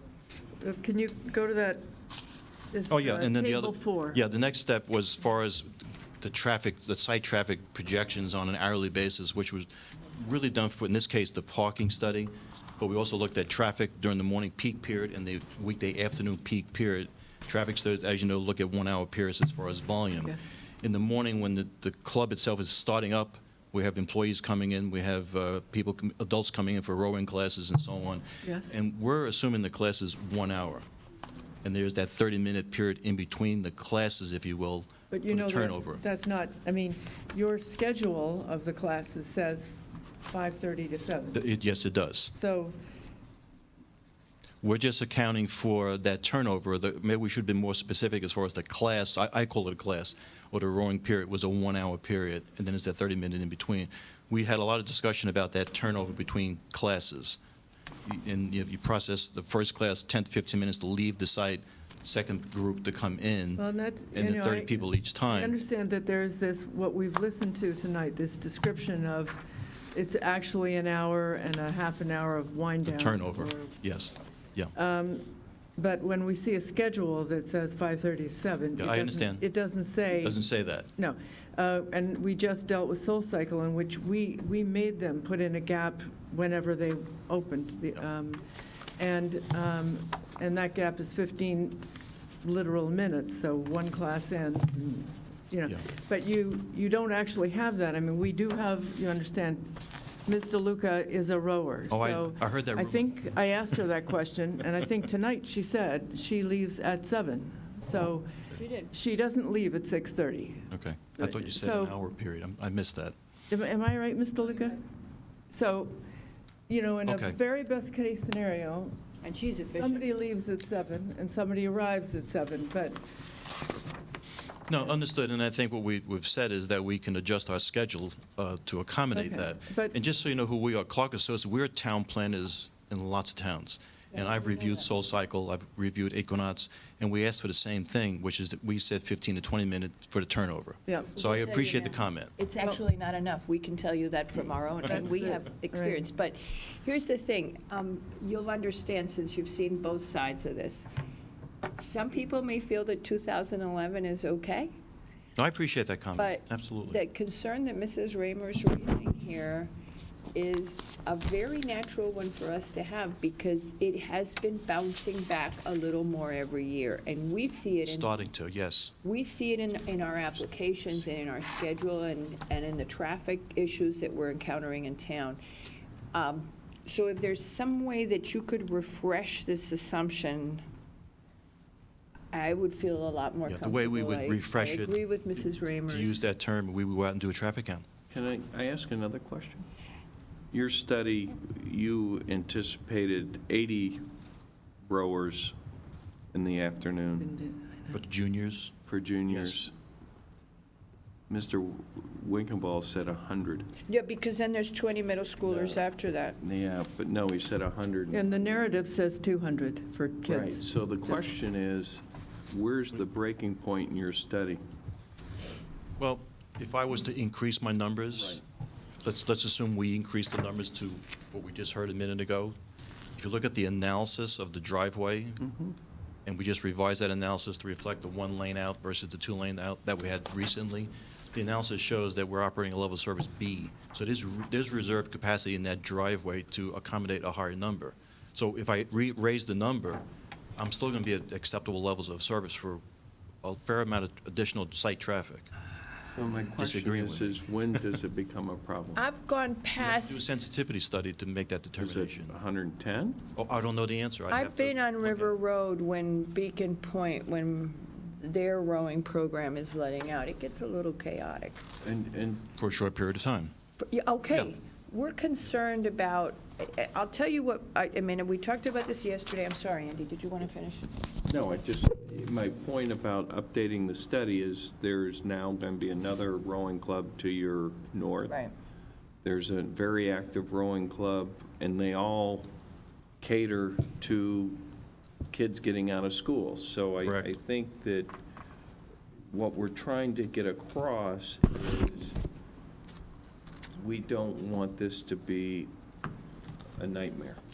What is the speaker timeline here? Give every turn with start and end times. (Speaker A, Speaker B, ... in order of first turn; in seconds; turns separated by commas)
Speaker A: 0.6-1.8, Speaker A: 2.7-4.2, Speaker B: 2.9-30.8, Speaker A: 28.4-28.7, Speaker B: 31.6-36.0, Speaker A: 35.1-39.7, Speaker A: 40.3-41.4, Speaker B: 41.3-42.3, Speaker A: 42.3-42.8, Speaker B: 44.6-57.4, Speaker B: 58.0-63.6, Speaker A: 63.6-69.4, Speaker B: 64.1-65.6, Speaker A: 69.9-73.7, Speaker B: 72.8-74.7, Speaker A: 74.7-80.4, Speaker B: 78.8-79.5, Speaker B: 80.2-80.9, Speaker A: 81.0-88.4, Speaker A: 89.0-91.9, Speaker A: 92.4-108.3, Speaker B: 101.9-103.2, Speaker C: 108.5-108.9, Speaker A: 108.9-112.0, Speaker B: 110.7-113.1, Speaker A: 113.5-114.8, Speaker A: 115.5-116.0, Speaker A: 116.7-118.9, Speaker B: 117.1-117.4, Speaker C: 119.2-120.1, Speaker A: 119.8-123.0, Speaker B: 124.7-142.3, Speaker A: 129.1-130.0, Speaker C: 134.1-134.8, Speaker A: 140.9-141.1, Speaker C: 141.1-150.9, Speaker A: 144.8-146.1, Speaker C: 151.8-154.8, Speaker B: 155.4-157.0, Speaker C: 156.2-159.7, Speaker C: 160.3-168.1, Speaker B: 167.8-168.9, Speaker C: 169.0-175.4, Speaker C: 176.1-180.6, Speaker C: 182.3-186.2, Speaker B: 183.4-185.0, Speaker B: 185.9-187.8, Speaker D: 188.1-189.7, Speaker D: 190.5-194.0, Speaker D: 194.8-195.6, Speaker D: 196.3-197.4, Speaker A: 197.2-197.9, Speaker B: 197.9-198.7, Speaker D: 198.8-199.7, Speaker B: 199.3-199.6, Speaker D: 201.3-203.7, Speaker C: 203.9-206.4, Speaker D: 205.4-205.8, Speaker D: 206.4-208.3, Speaker A: 208.1-211.2, Speaker D: 210.2-214.6, Speaker B: 216.0-218.4, Speaker D: 218.1-218.4, Speaker B: 219.0-222.6, Speaker B: 223.2-225.5, Speaker D: 225.5-225.7, Speaker B: 226.2-240.0, Speaker B: 240.6-242.8, Speaker B: 243.4-245.5, Speaker D: 246.1-249.0, Speaker B: 246.6-247.4, Speaker C: 248.9-250.3, Speaker B: 249.8-252.3, Speaker D: 251.8-253.2, Speaker B: 253.3-255.3, Speaker C: 254.3-261.6, Speaker D: 261.8-262.5, Speaker B: 262.6-263.5, Speaker C: 263.8-270.9, Speaker D: 271.3-278.4, Speaker C: 278.3-278.5, Speaker D: 279.2-282.5, Speaker D: 283.2-284.7, Speaker D: 285.3-288.1, Speaker B: 287.0-287.3, Speaker D: 289.3-292.2, Speaker D: 293.8-295.7, Speaker D: 296.8-297.4